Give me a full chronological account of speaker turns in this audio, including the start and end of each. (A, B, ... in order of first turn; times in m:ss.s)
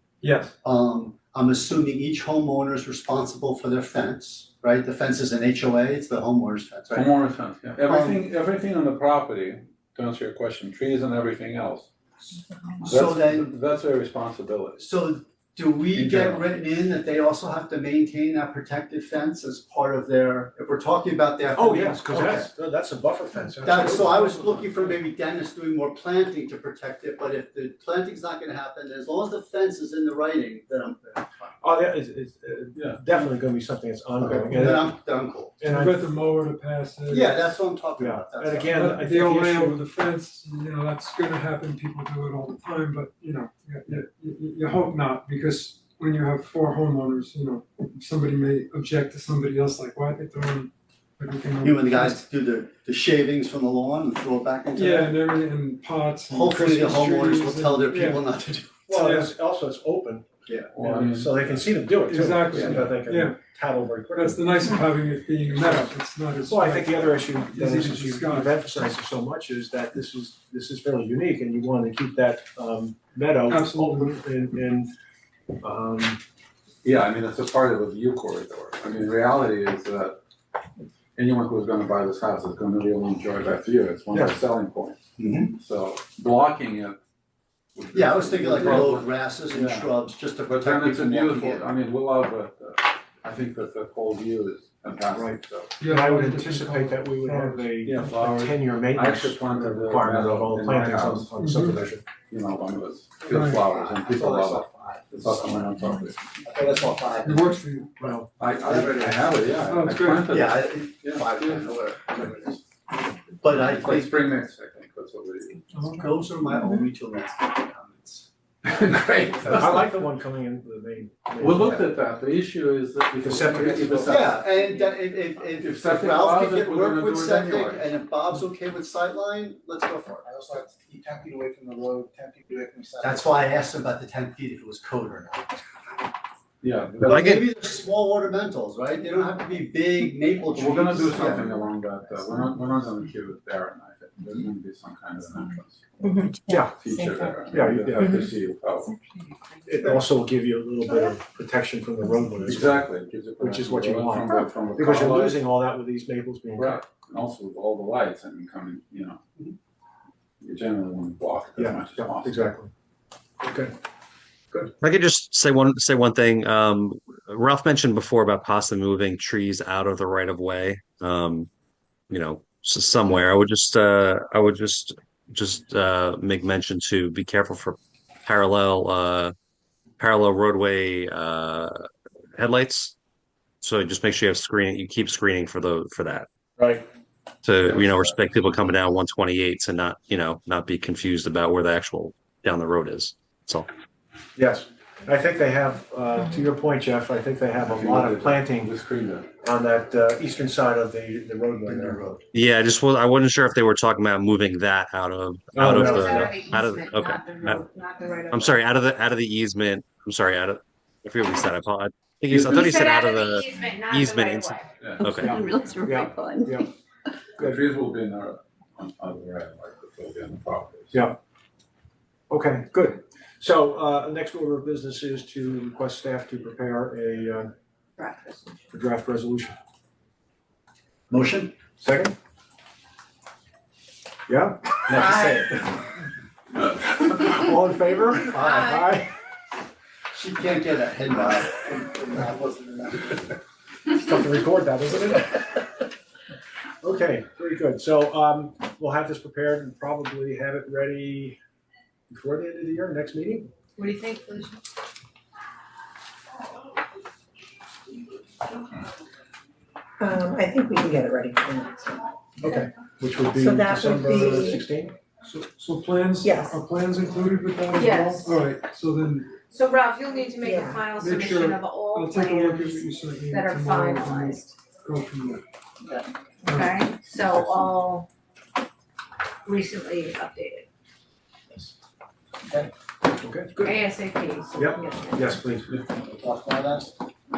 0:00.2-0:00.5 A
0:00.6-0:07.1 B
0:06.9-0:11.9 C
0:07.8-0:08.2 B
0:12.8-0:13.5 B
0:12.8-0:14.9 C
0:14.8-0:22.5 B
0:15.9-0:16.6 C
0:21.6-0:25.0 D
0:23.6-0:31.6 B
0:31.6-0:36.0 D
0:32.8-0:33.2 C
0:34.2-0:35.6 B
0:35.6-0:37.6 A
0:37.1-0:38.8 B
0:38.0-0:39.8 D
0:38.7-0:52.2 A
0:51.6-0:55.2 B
0:54.8-0:58.3 A
0:56.3-0:59.0 B
0:58.9-1:00.3 D
0:59.0-0:59.3 A
1:00.5-1:00.7 B
1:00.7-1:01.7 C
1:01.0-1:04.6 D
1:02.0-1:03.4 A
1:04.1-1:08.6 A
1:05.6-1:05.9 D
1:06.4-1:14.9 D
1:13.5-1:14.2 A
1:15.6-1:16.2 D
1:16.8-1:20.2 C
1:21.2-1:25.0 C
1:24.1-1:24.4 D
1:25.2-1:25.6 B
1:25.6-1:27.0 C
1:27.8-1:30.0 C
1:27.9-1:31.7 B
1:30.5-1:35.8 C
1:35.1-1:42.0 D
1:35.8-1:38.5 A
1:38.0-1:41.4 C
1:41.4-1:41.8 A
1:42.3-1:46.5 C
1:43.3-1:43.7 A
1:43.8-1:45.0 B
1:44.1-1:44.6 E
1:46.5-1:47.4 E
1:46.6-1:47.1 B
1:47.2-1:48.0 A
1:48.0-1:48.3 D
1:48.0-1:49.4 B
1:48.4-1:51.6 C
1:49.6-1:50.4 A
1:50.3-1:52.6 B
1:53.4-1:54.4 B
1:53.5-1:55.7 C
1:55.7-1:56.1 A
1:55.8-1:58.3 B
1:58.6-2:00.1 C
1:59.4-2:01.9 D
2:01.4-2:04.5 C
2:03.2-2:04.3 D
2:04.1-2:10.3 B
2:05.6-2:07.9 C
2:10.2-2:13.6 E
2:13.0-2:15.6 B
2:16.6-2:17.4 C
2:17.0-2:21.6 B
2:17.1-2:17.4 F
2:20.5-2:26.1 C
2:26.0-2:26.3 G
2:26.5-2:26.8 D
2:26.7-2:29.0 C
2:27.4-2:28.3 D
2:29.1-2:30.0 H
2:29.7-2:32.9 D
2:32.4-2:35.4 C
2:33.4-2:36.8 D
2:36.6-2:39.2 C
2:40.4-2:42.4 C
2:41.6-2:42.7 D
2:43.4-2:43.7 D
2:44.8-2:51.5 F
2:52.1-2:59.3 F
3:00.0-3:03.0 F
3:03.6-3:06.3 F
3:06.6-3:06.8 D
3:07.4-3:13.7 F
3:07.6-3:08.2 C
3:14.4-3:18.7 D
3:17.6-3:19.3 C
3:19.4-3:22.0 D
3:21.6-3:22.2 B
3:22.3-3:27.6 F
3:25.5-3:26.6 D
3:25.6-3:28.6 H
3:28.3-3:35.4 F
3:32.4-3:34.8 H
3:34.8-3:35.1 C
3:35.1-3:36.7 D
3:37.4-3:41.1 C
3:40.9-3:41.2 D
3:42.3-3:47.5 D
3:48.0-3:48.6 H
3:48.7-3:49.6 D
3:51.1-3:51.5 B
3:51.8-3:52.1 D
3:54.3-3:54.6 D
3:55.0-3:55.4 B
3:57.0-3:59.1 D
3:58.2-3:59.0 B
3:58.5-3:59.0 H
4:00.1-4:02.8 B
4:02.6-4:02.9 E
4:03.9-4:05.9 D
4:06.8-4:11.4 D
4:12.1-4:13.5 D
4:13.8-4:14.6 H
4:20.0-4:22.1 G
4:22.4-4:25.0 D
4:23.3-4:24.6 G
4:25.2-4:29.4 A
4:26.2-4:26.6 G
4:27.8-4:28.4 H
4:29.5-4:34.6 H
4:30.4-4:30.9 G
4:30.9-4:35.4 A
4:36.4-4:36.8 A
4:36.5-4:38.1 H
4:39.5-4:40.7 H
4:43.2-4:43.8 D
4:43.6-4:45.4 H
4:44.5-4:45.7 D
4:46.1-4:46.9 E